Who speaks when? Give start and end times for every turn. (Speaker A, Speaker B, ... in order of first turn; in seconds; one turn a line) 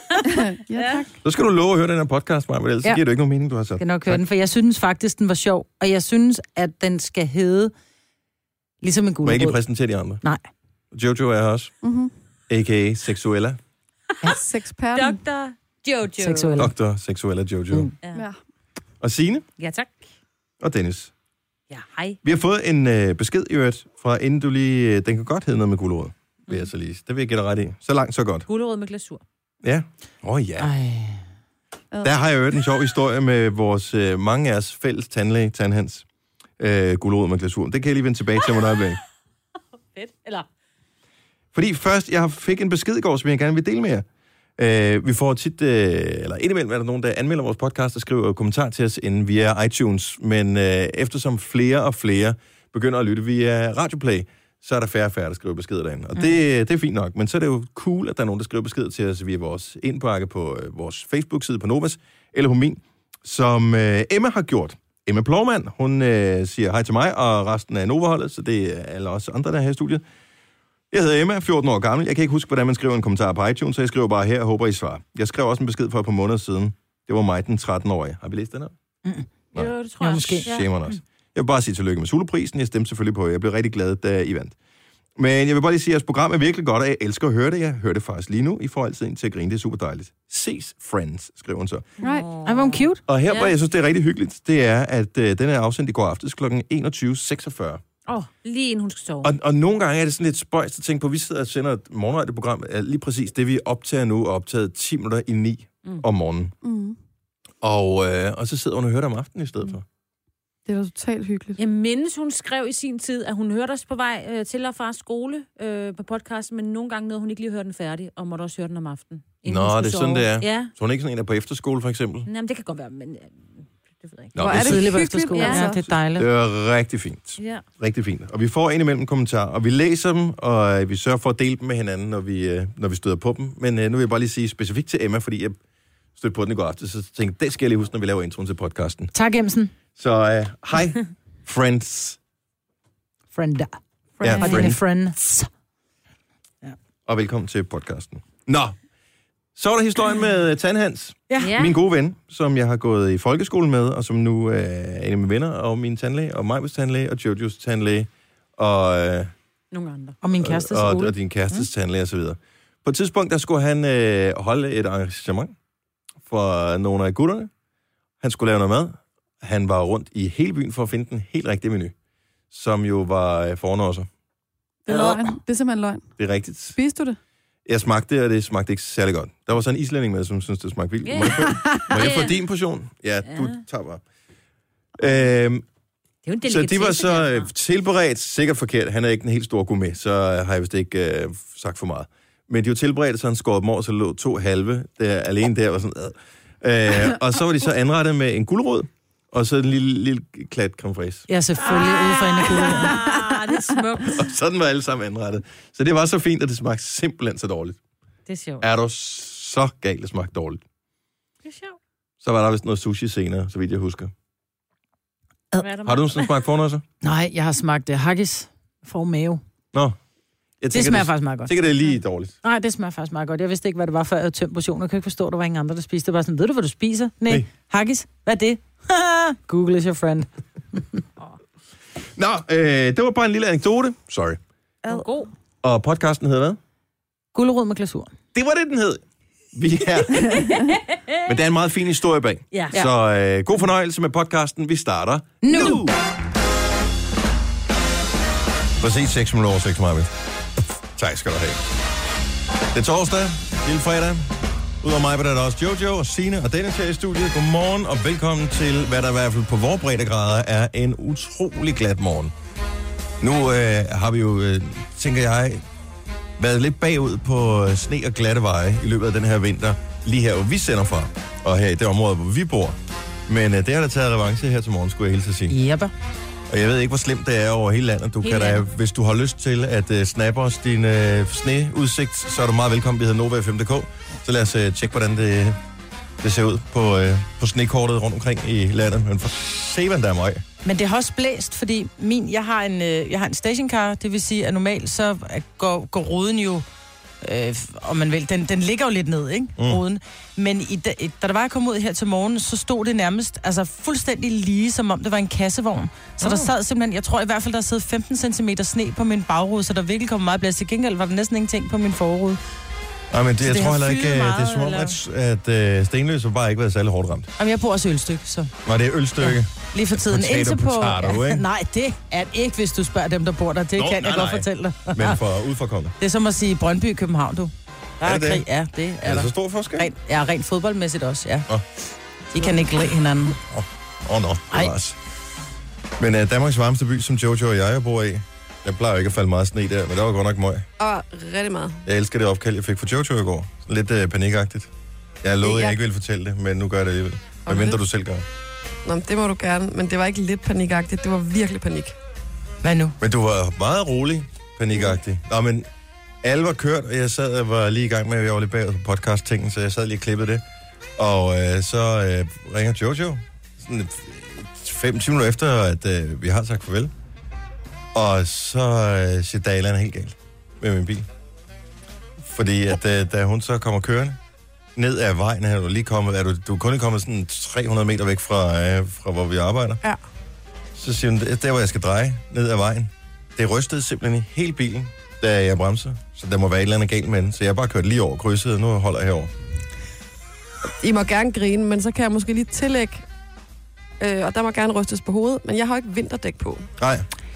Speaker A: 0.4-1.1
Speaker B: 0.7-1.0
Speaker C: 1.2-4.2
Speaker D: 3.8-7.7
Speaker D: 8.8-9.6
Speaker C: 9.2-10.2
Speaker C: 10.9-11.7
Speaker A: 11.8-12.1
Speaker C: 12.5-13.6
Speaker E: 14.3-15.0
Speaker B: 14.9-16.7
Speaker D: 16.2-16.7
Speaker C: 16.6-17.9
Speaker B: 18.0-18.3
Speaker C: 19.0-19.4
Speaker B: 19.6-20.0
Speaker C: 20.6-21.1
Speaker B: 21.7-22.2
Speaker C: 22.2-28.5
Speaker B: 28.5-29.2
Speaker C: 29.6-30.7
Speaker D: 30.6-31.2
Speaker C: 32.0-36.0
Speaker C: 36.6-39.0
Speaker B: 38.4-38.7
Speaker B: 39.9-40.5
Speaker C: 41.5-44.0
Speaker C: 44.6-70.0
Speaker C: 70.9-78.7
Speaker B: 79.5-80.9
Speaker D: 80.0-80.5
Speaker C: 80.3-84.5
Speaker C: 85.2-91.9
Speaker B: 92.0-93.5
Speaker D: 92.0-93.0
Speaker C: 93.1-97.8
Speaker B: 98.1-99.3
Speaker C: 99.2-106.5
Speaker E: 106.6-107.0
Speaker C: 107.6-109.8
Speaker E: 110.7-111.6
Speaker B: 111.6-120.7
Speaker C: 119.4-122.3
Speaker B: 122.3-123.5
Speaker B: 124.0-124.3
Speaker C: 124.3-124.9
Speaker E: 124.4-125.9
Speaker D: 124.4-126.3
Speaker B: 125.3-125.7
Speaker C: 126.0-135.6
Speaker B: 127.4-127.6
Speaker C: 136.2-139.1
Speaker D: 139.1-139.7
Speaker C: 139.9-142.2
Speaker D: 143.3-145.5
Speaker C: 144.2-144.8
Speaker A: 144.3-144.6
Speaker C: 147.1-148.8
Speaker C: 149.5-159.3
Speaker B: 151.4-151.8
Speaker B: 159.7-160.2
Speaker D: 160.2-161.6
Speaker C: 160.4-165.5
Speaker C: 166.2-167.5
Speaker C: 168.2-171.9
Speaker C: 172.5-174.1
Speaker A: 174.9-176.2
Speaker C: 174.9-175.3
Speaker C: 176.2-176.8
Speaker A: 176.7-177.2
Speaker C: 177.7-184.0
Speaker B: 181.0-182.4
Speaker B: 183.2-183.6
Speaker C: 185.0-185.6
Speaker B: 186.2-187.5
Speaker C: 186.4-201.3
Speaker D: 201.3-203.0
Speaker B: 201.6-204.2
Speaker C: 204.0-207.8
Speaker B: 208.3-208.7
Speaker C: 208.6-210.6
Speaker B: 211.4-211.8
Speaker C: 212.2-214.1
Speaker B: 215.6-216.4
Speaker C: 215.8-216.8
Speaker D: 217.0-219.4
Speaker C: 219.7-220.0
Speaker C: 220.6-222.3
Speaker D: 220.7-221.6
Speaker D: 222.4-231.0
Speaker C: 232.2-234.4
Speaker B: 234.8-235.3
Speaker C: 235.6-236.6
Speaker D: 237.3-238.1
Speaker C: 238.3-239.0
Speaker C: 239.5-240.5
Speaker B: 240.2-241.1
Speaker C: 241.2-246.0
Speaker B: 242.5-242.8
Speaker D: 245.4-245.8
Speaker C: 248.8-250.1
Speaker C: 250.9-251.6
Speaker C: 252.7-262.3
Speaker C: 263.2-265.6
Speaker C: 266.4-275.6
Speaker D: 275.5-275.9
Speaker C: 276.5-285.6
Speaker D: 278.2-278.6
Speaker C: 286.2-290.4
Speaker D: 290.6-296.6
Speaker D: 297.2-312.4
Speaker C: 306.2-306.5
Speaker C: 313.1-317.3
Speaker D: 313.4-314.9
Speaker D: 317.4-318.5
Speaker C: 318.6-321.4
Speaker D: 319.2-325.2
Speaker C: 323.8-325.9
Speaker D: 326.0-331.5
Speaker C: 328.0-328.4
Speaker C: 329.0-329.9
Speaker D: 332.3-333.4
Speaker C: 333.5-335.0
Speaker C: 336.0-340.6
Speaker E: 340.8-341.8
Speaker C: 341.8-344.7
Speaker C: 345.2-348.2
Speaker E: 345.4-345.8
Speaker E: 347.5-347.8
Speaker E: 348.8-351.9
Speaker D: 352.6-353.0
Speaker C: 353.0-355.7
Speaker C: 356.2-360.4
Speaker C: 361.0-366.9
Speaker C: 367.9-371.1
Speaker C: 372.2-374.2
Speaker C: 374.8-379.8
Speaker C: 380.7-389.3
Speaker E: 390.8-393.0
Speaker E: 394.0-396.7
Speaker C: 396.8-397.1